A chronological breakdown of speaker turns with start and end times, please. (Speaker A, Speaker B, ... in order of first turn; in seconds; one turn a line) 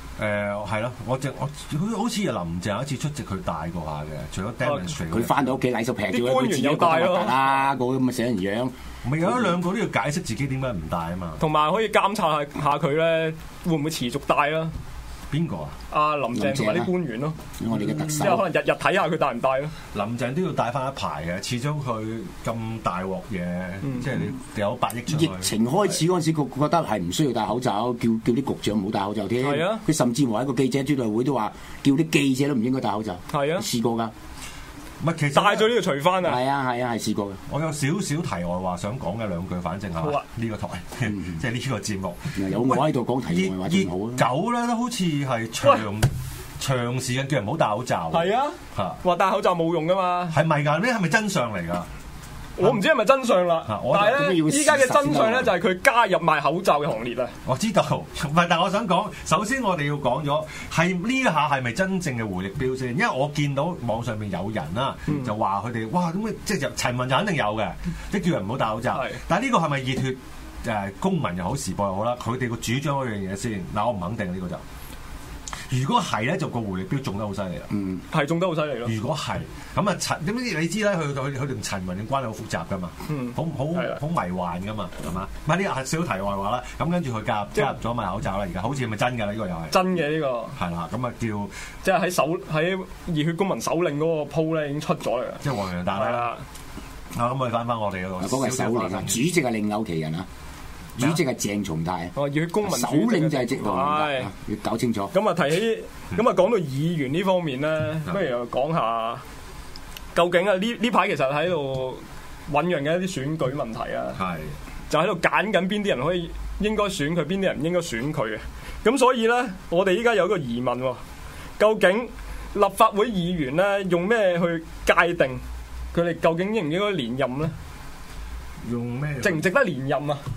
Speaker A: 0.2-5.5
Speaker B: 4.6-4.9
Speaker C: 5.1-8.7
Speaker B: 6.1-7.5
Speaker A: 9.0-11.4
Speaker B: 11.4-14.7
Speaker A: 15.3-15.8
Speaker B: 15.9-17.4
Speaker C: 16.3-16.9
Speaker C: 17.6-18.4
Speaker B: 18.1-19.7
Speaker A: 19.9-25.5
Speaker C: 25.1-34.1
Speaker B: 29.4-29.8
Speaker B: 33.3-33.7
Speaker A: 35.0-35.7
Speaker B: 35.3-36.4
Speaker C: 36.2-37.4
Speaker A: 37.5-49.0
Speaker C: 41.1-41.4
Speaker C: 42.4-44.3
Speaker B: 48.1-50.4
Speaker A: 50.3-51.9
Speaker B: 52.6-57.3
Speaker A: 53.7-54.3
Speaker C: 54.0-55.5
Speaker A: 57.5-74.6
Speaker B: 68.9-69.2
Speaker A: 75.7-77.7
Speaker C: 77.7-78.0
Speaker B: 78.1-78.9
Speaker A: 78.9-89.8
Speaker B: 83.1-84.0
Speaker B: 89.7-90.6
Speaker A: 90.6-91.5
Speaker B: 91.8-96.4
Speaker A: 95.4-96.3
Speaker A: 97.1-99.2
Speaker C: 98.2-100.3
Speaker C: 101.0-105.1
Speaker B: 102.2-104.3
Speaker B: 105.1-109.2
Speaker B: 110.2-114.2
Speaker A: 114.2-114.5
Speaker B: 114.9-121.0
Speaker B: 121.6-125.4
Speaker B: 125.9-127.5
Speaker A: 128.6-129.5
Speaker B: 129.2-130.2